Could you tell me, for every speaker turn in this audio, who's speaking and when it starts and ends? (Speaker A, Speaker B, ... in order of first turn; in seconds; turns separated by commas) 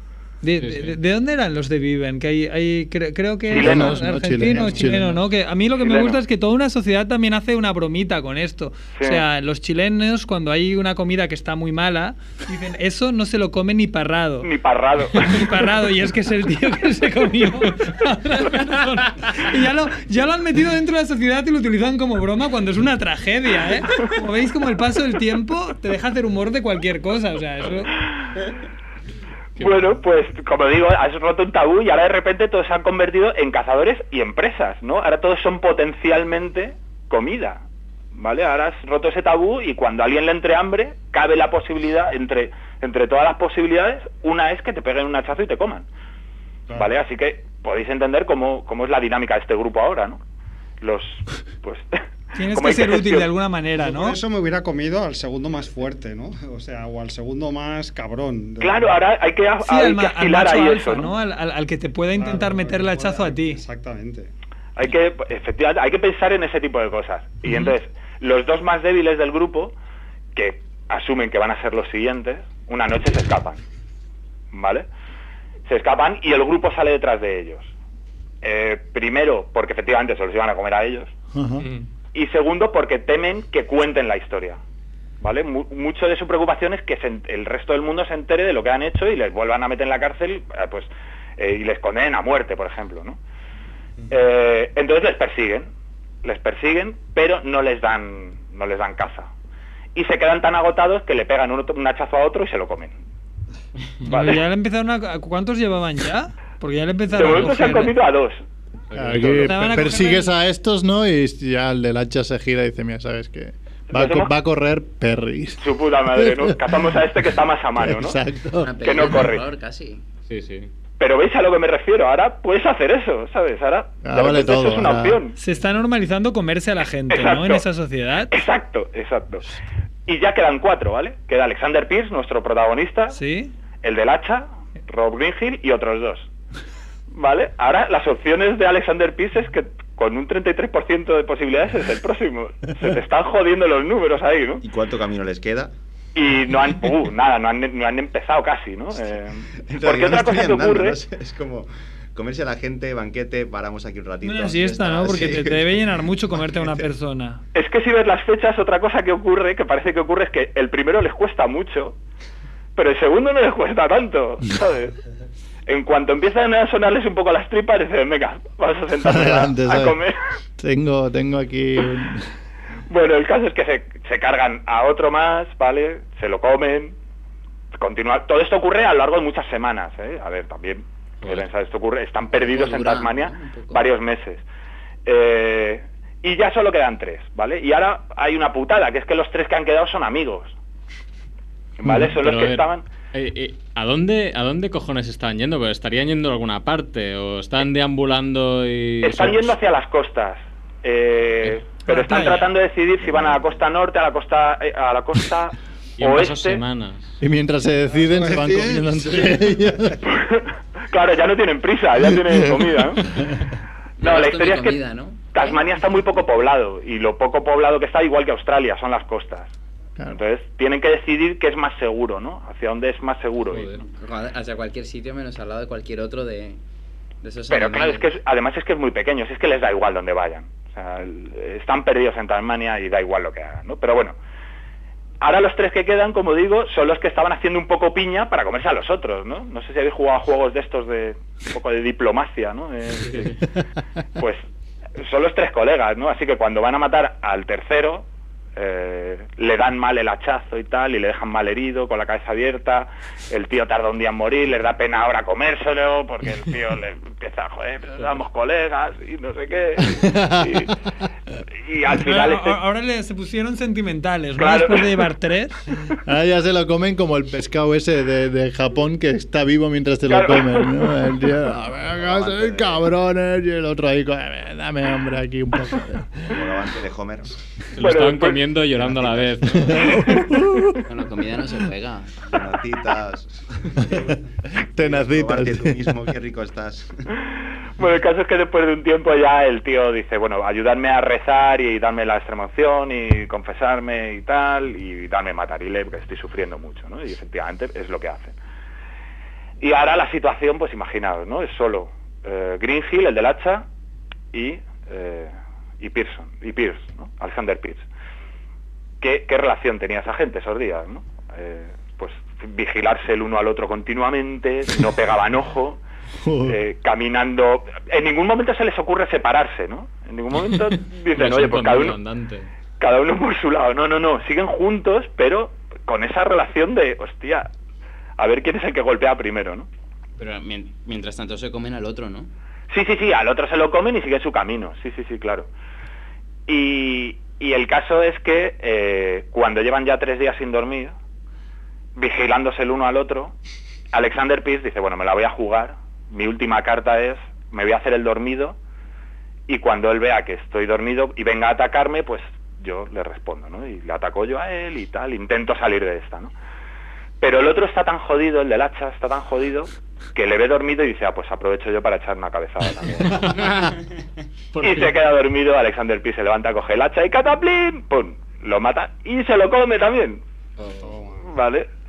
Speaker A: 0.4-14.5, Speaker B: 0.6-1.0, Speaker C: 3.5-5.2, Speaker D: 3.5-4.0, Speaker E: 4.5-5.0, Speaker D: 5.8-6.2, Speaker D: 9.0-9.2, Speaker D: 14.4-15.4, Speaker A: 15.2-28.0, Speaker D: 29.6-37.6, Speaker D: 38.1-45.9, Speaker D: 46.8-50.2, Speaker D: 50.8-53.3, Speaker A: 52.4-54.2, Speaker E: 53.8-59.0, Speaker D: 58.6-61.1, Speaker A: 59.6-63.6, Speaker E: 62.1-64.3, Speaker D: 64.8-69.7, Speaker D: 70.3-73.6, Speaker D: 74.5-74.9, Speaker D: 75.7-77.7, Speaker D: 78.4-81.1, Speaker C: 81.3-81.7, Speaker B: 81.6-81.8, Speaker D: 82.1-84.6, Speaker D: 85.2-93.2, Speaker D: 94.1-95.7, Speaker D: 96.2-99.3, Speaker D: 100.0-102.9, Speaker D: 104.1-104.4, Speaker A: 104.1-107.9, Speaker D: 107.1-108.4, Speaker B: 108.9-109.5, Speaker C: 109.0-117.0, Speaker A: 109.3-110.3, Speaker D: 113.9-114.3, Speaker D: 115.6-118.2, Speaker C: 117.8-118.8, Speaker F: 118.6-120.0, Speaker D: 118.8-119.5, Speaker B: 120.3-120.7, Speaker D: 121.0-125.3, Speaker C: 124.0-125.2, Speaker A: 125.4-128.4, Speaker D: 127.1-127.6, Speaker D: 128.3-129.4, Speaker D: 130.1-133.2, Speaker A: 133.1-133.5, Speaker D: 133.8-136.3, Speaker D: 137.1-144.6, Speaker G: 144.6-145.7, Speaker D: 146.2-151.0, Speaker G: 149.6-155.9, Speaker A: 154.2-157.4, Speaker G: 156.4-156.8, Speaker D: 157.5-162.0, Speaker D: 162.8-165.0, Speaker D: 165.7-170.2, Speaker C: 169.0-170.0, Speaker C: 170.6-172.3, Speaker D: 172.9-176.9, Speaker D: 177.8-184.4, Speaker F: 182.3-183.8, Speaker D: 185.1-190.5, Speaker D: 191.8-192.8, Speaker B: 191.8-199.5, Speaker D: 199.0-206.6, Speaker A: 201.9-202.5, Speaker B: 206.0-207.1, Speaker C: 207.2-210.0, Speaker E: 207.9-210.0, Speaker D: 210.1-213.2, Speaker C: 212.1-213.4, Speaker F: 214.0-215.7, Speaker D: 214.0-214.8, Speaker D: 215.3-219.5, Speaker D: 220.1-223.7, Speaker B: 223.5-223.8, Speaker F: 223.9-226.6, Speaker F: 227.2-228.1, Speaker D: 227.5-234.2, Speaker D: 235.2-243.4, Speaker B: 243.1-243.4, Speaker D: 244.2-244.4, Speaker D: 245.0-260.7, Speaker C: 259.8-260.7, Speaker D: 261.6-262.6, Speaker A: 262.0-265.6, Speaker D: 264.4-265.1, Speaker C: 266.1-276.4, Speaker D: 270.1-270.8, Speaker G: 271.8-272.8, Speaker G: 276.3-277.3, Speaker B: 277.8-280.1, Speaker D: 277.8-278.4, Speaker G: 278.8-279.7, Speaker C: 279.6-280.8, Speaker F: 280.9-282.4, Speaker G: 282.3-284.2, Speaker C: 284.6-286.0, Speaker G: 284.8-287.0, Speaker D: 287.8-298.4, Speaker D: 299.6-303.7, Speaker D: 304.3-307.9, Speaker D: 309.0-315.8, Speaker C: 316.2-316.6, Speaker D: 316.5-322.0, Speaker B: 321.1-322.5, Speaker D: 322.8-327.5, Speaker D: 328.2-329.7, Speaker F: 330.2-332.3, Speaker D: 332.7-335.5, Speaker D: 336.5-340.9, Speaker D: 342.0-343.4, Speaker D: 343.9-348.6, Speaker D: 349.5-356.3, Speaker D: 357.2-363.4, Speaker B: 363.0-363.8, Speaker B: 364.5-365.0, Speaker D: 364.6-370.2, Speaker E: 370.7-371.3, Speaker D: 371.3-371.7